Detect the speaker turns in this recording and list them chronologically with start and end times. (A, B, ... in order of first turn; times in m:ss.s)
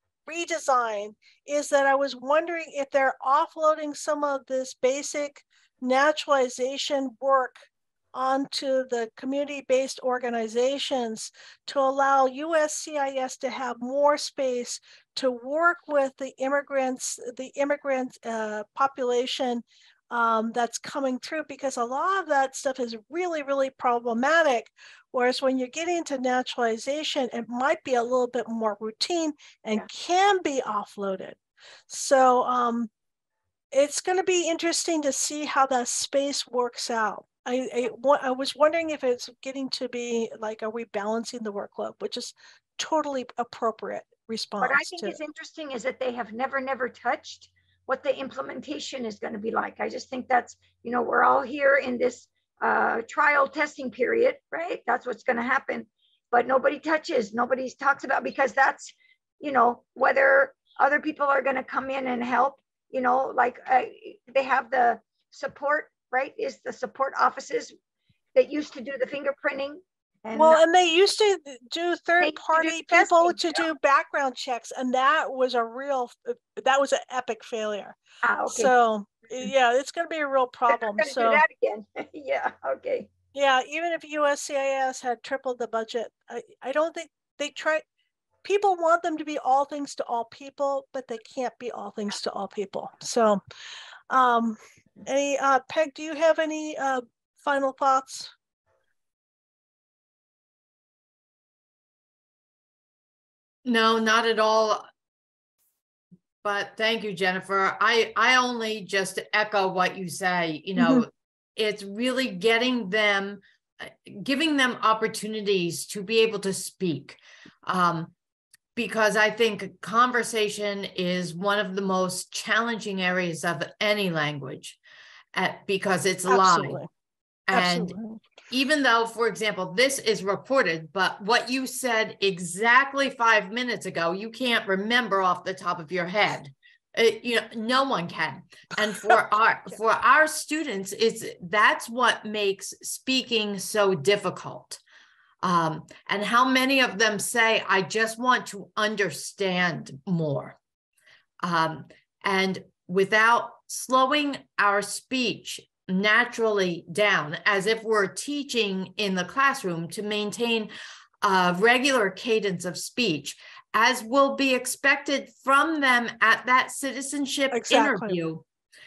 0:00.3-0:31.4 A
0:31.9-0:32.9 A
0:33.7-0:45.2 A
0:44.6-1:07.7 B
1:08.3-1:10.6 B
1:10.3-1:18.0 A
1:12.2-1:13.6 B
1:18.2-1:18.7 B
1:18.5-1:21.4 A
1:20.7-1:23.1 B
1:23.3-1:27.8 A
1:28.4-1:33.4 A
1:34.1-1:38.3 A
1:43.6-1:44.8 C
1:46.4-1:58.1 C
1:50.8-1:51.1 A
1:58.7-2:04.8 C
2:05.3-2:06.8 C
2:06.3-2:06.9 A
2:07.5-2:08.0 C
2:07.5-2:08.2 A
2:08.5-2:24.8 C
2:25.4-2:30.6 C
2:31.4-2:40.7 C
2:41.2-2:48.4 C
2:47.5-2:48.2 A